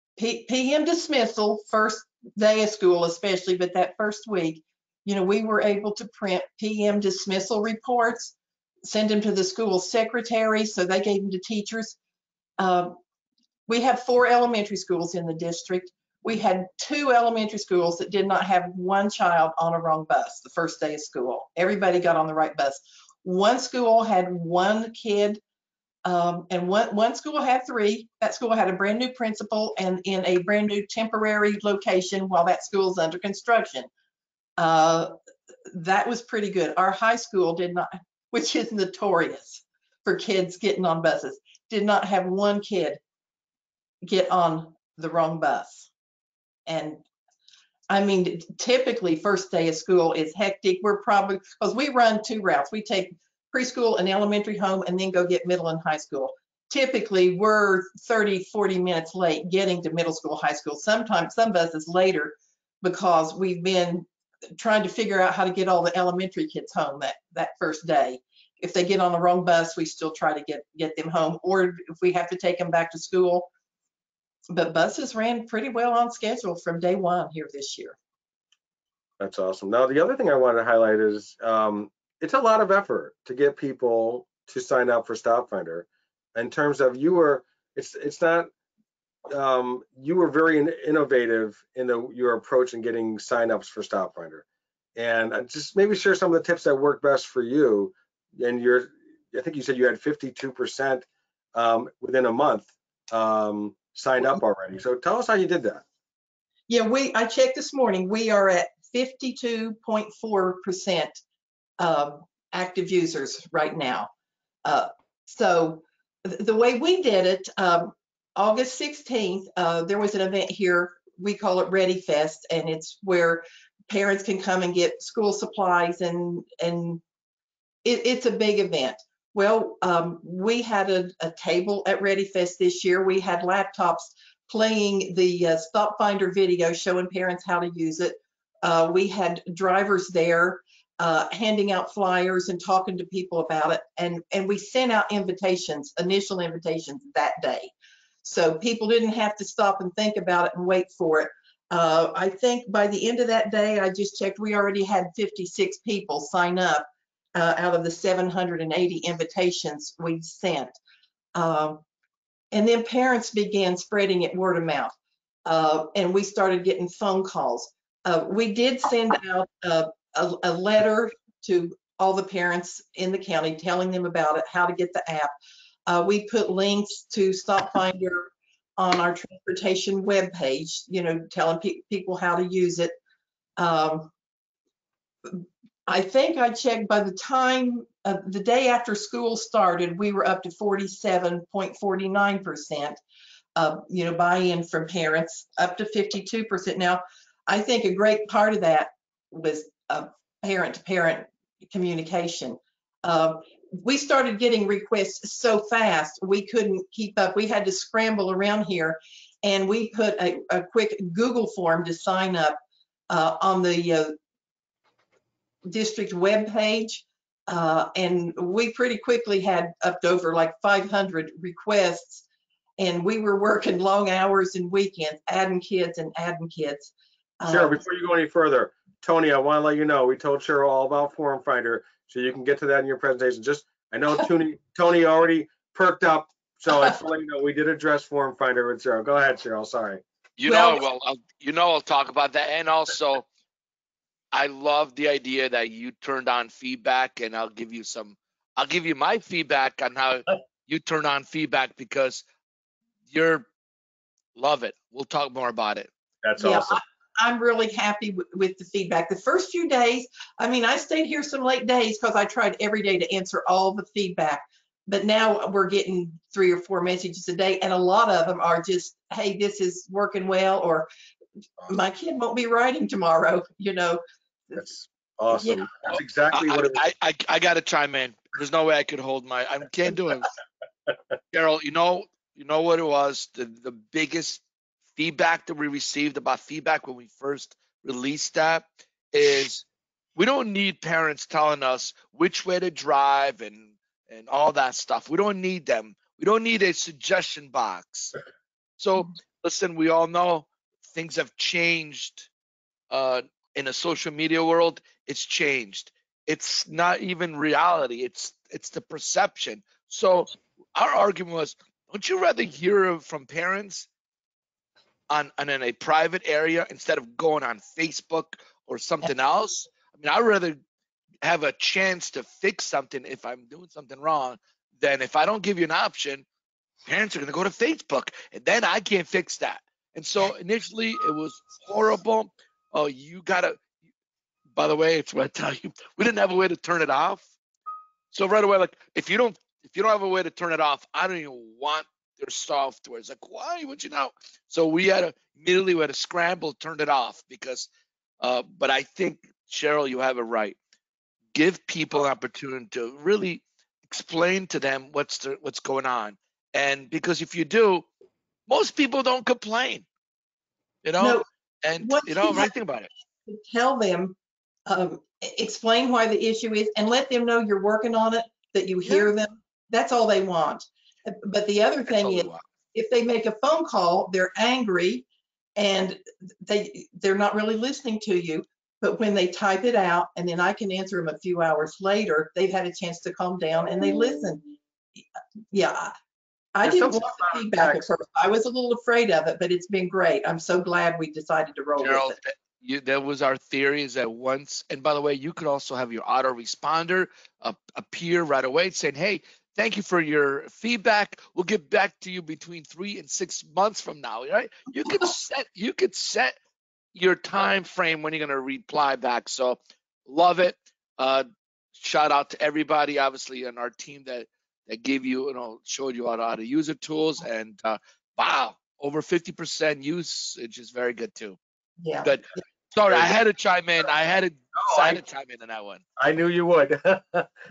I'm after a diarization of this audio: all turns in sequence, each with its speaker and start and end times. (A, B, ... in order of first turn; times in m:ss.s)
0:00.2-0:12.0 A
0:12.6-0:13.0 A
0:13.7-0:25.4 A
0:26.0-0:33.9 A
0:34.6-0:35.1 A
0:35.7-0:43.0 A
0:44.0-0:45.9 A
0:46.7-0:47.0 A
0:47.9-1:04.1 A
1:04.6-1:13.5 A
1:14.5-1:18.0 A
1:19.2-1:28.5 B
1:29.3-1:34.4 B
1:35.0-1:45.8 B
1:46.7-1:51.2 A
1:51.8-1:54.1 A
1:54.6-2:07.0 A
2:07.8-2:27.7 A
2:28.2-2:40.7 A
2:41.4-2:41.8 A
2:42.5-2:44.9 A
2:45.5-2:55.3 A
2:55.9-3:03.0 A
3:03.6-3:04.1 A
3:05.3-3:13.0 A
3:13.6-3:32.6 A
3:33.1-3:34.2 A
3:35.7-3:42.2 A
3:42.8-3:47.8 A
3:47.5-4:00.0 B
4:00.4-4:03.2 C
4:00.5-4:00.8 A
4:04.3-4:12.2 C
4:13.1-4:13.5 C
4:14.4-4:15.9 C
4:16.2-4:16.8 B
4:16.4-4:30.9 A
4:31.7-4:34.6 A
4:34.6-4:36.8 B
4:35.4-4:35.7 A
4:36.3-4:40.3 C
4:41.3-4:44.4 C
4:45.0-4:49.6 C
4:50.2-4:58.1 C
4:58.8-5:02.3 C
5:02.9-5:13.9 C
5:15.1-5:20.6 C
5:21.2-5:26.2 C
5:26.9-5:33.6 C
5:34.5-5:37.2 C
5:38.1-5:47.7 C
5:48.2-5:50.6 C
5:51.3-5:57.9 C
5:58.5-5:59.9 C
6:00.8-6:02.9 C
6:01.0-6:01.2 A
6:01.8-6:02.5 A
6:03.3-6:04.2 A
6:04.7-6:15.0 A
6:11.9-6:12.4 C
6:15.6-6:24.4 A
6:25.5-6:25.9 A
6:26.6-6:32.2 A
6:26.6-6:27.9 B
6:31.8-6:46.4 C
6:47.0-7:01.4 C
7:01.8-7:02.4 A
7:02.0-7:05.8 C
7:02.9-7:03.1 B
7:04.6-7:05.0 B
7:06.0-7:07.3 B